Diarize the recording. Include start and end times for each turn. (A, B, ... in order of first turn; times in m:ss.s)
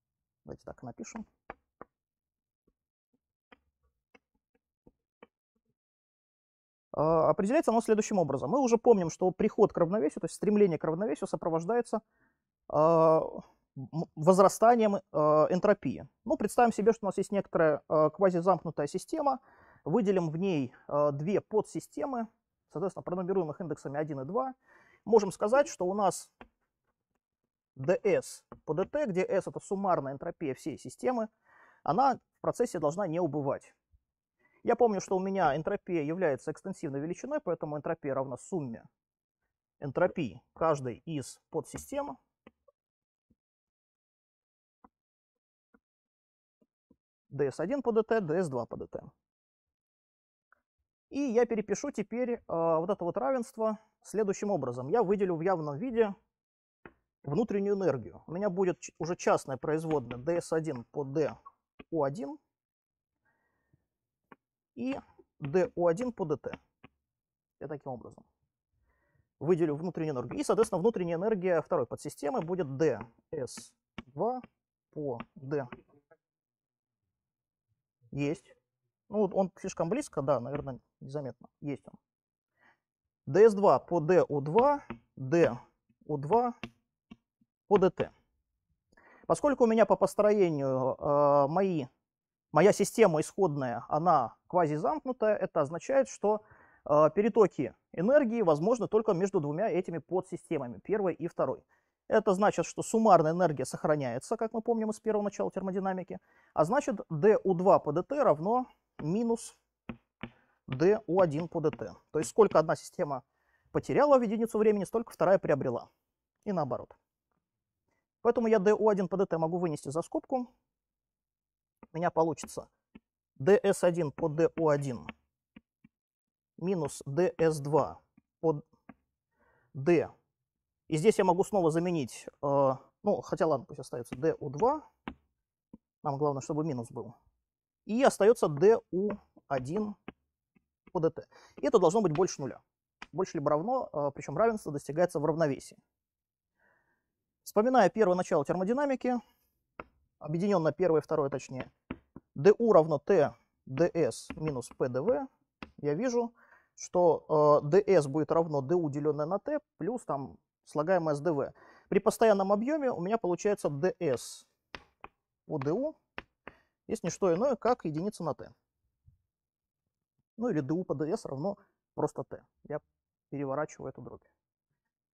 0:00.5-0:01.3 A
0:06.9-0:12.0 A
0:12.7-0:26.3 A
0:27.8-0:31.3 A
0:31.8-0:33.8 A
0:34.6-0:38.9 A
0:39.8-0:42.2 A
0:47.3-0:49.1 A
0:51.1-0:56.1 A
0:57.2-1:01.4 A
1:01.9-1:02.4 A
1:04.8-1:06.6 A
1:07.6-1:08.3 A
1:09.4-1:15.7 A
1:18.1-1:18.6 A
1:19.1-1:22.0 A
1:23.3-1:26.6 A
1:27.7-1:28.1 A
1:29.3-1:31.9 A
1:32.5-1:49.6 A
1:50.7-1:55.9 A
1:56.4-1:57.0 A
1:58.2-2:00.5 A
2:01.9-2:02.7 A
2:03.4-2:05.1 A
2:06.6-2:08.6 A
2:09.7-2:10.1 A
2:10.9-2:14.9 A
2:16.0-2:17.2 A
2:17.9-2:20.0 A
2:20.9-2:22.6 A
2:23.1-2:25.8 A
2:27.4-2:29.2 A
2:30.2-2:31.7 A
2:32.4-2:35.3 A
2:35.8-2:44.5 A
2:45.5-2:46.0 A
2:46.9-2:48.5 A
2:50.4-2:54.3 A